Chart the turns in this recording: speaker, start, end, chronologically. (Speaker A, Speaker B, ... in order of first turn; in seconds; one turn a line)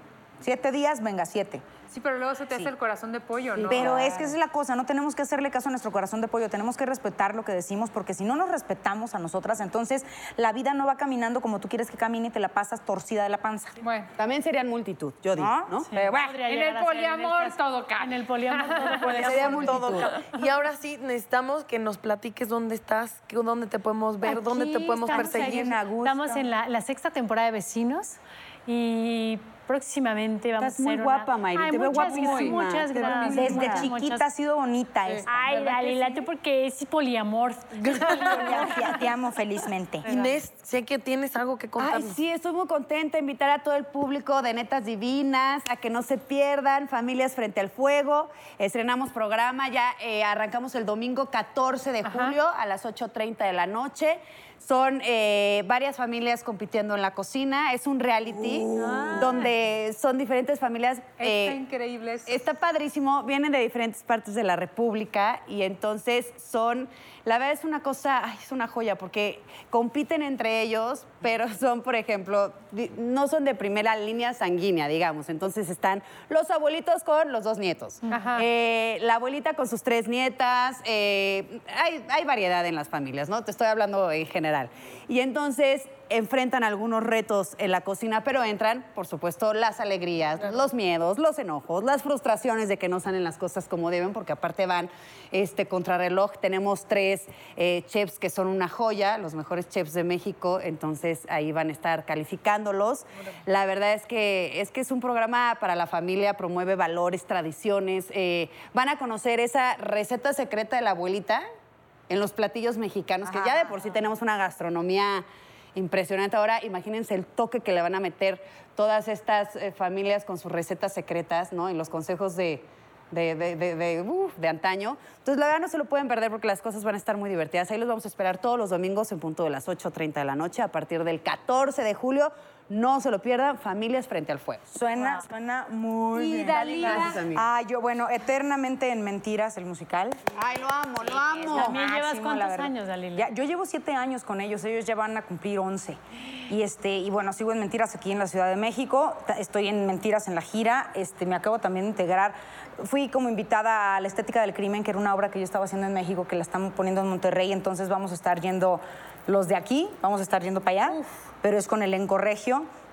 Speaker A: 0.4-1.6
Speaker B: 1.9-4.3
Speaker A: 3.6-13.8
Speaker B: 13.8-14.1
Speaker C: 14.2-15.9
Speaker A: 15.3-16.4
Speaker D: 15.8-20.0
Speaker B: 16.4-19.2
Speaker E: 19.1-25.8
Speaker C: 19.2-20.1
Speaker D: 24.2-34.3
Speaker A: 25.1-26.4
Speaker C: 30.6-33.9
Speaker A: 33.3-35.5
Speaker D: 35.2-38.9
Speaker E: 37.8-38.9
Speaker A: 38.1-40.1
Speaker D: 40.0-40.4
Speaker E: 40.0-42.2
Speaker C: 41.8-61.6
Speaker D: 58.8-59.4
Speaker B: 58.8-59.5
Speaker B: 61.2-62.4
Speaker C: 62.2-111.4
Speaker B: 78.1-78.4
Speaker C: 112.1-134.7
Speaker A: 113.3-113.7
Speaker A: 134.7-140.2
Speaker C: 136.3-137.4
Speaker B: 136.5-137.1
Speaker C: 140.3-141.8
Speaker A: 141.4-162.7
Speaker D: 141.5-143.3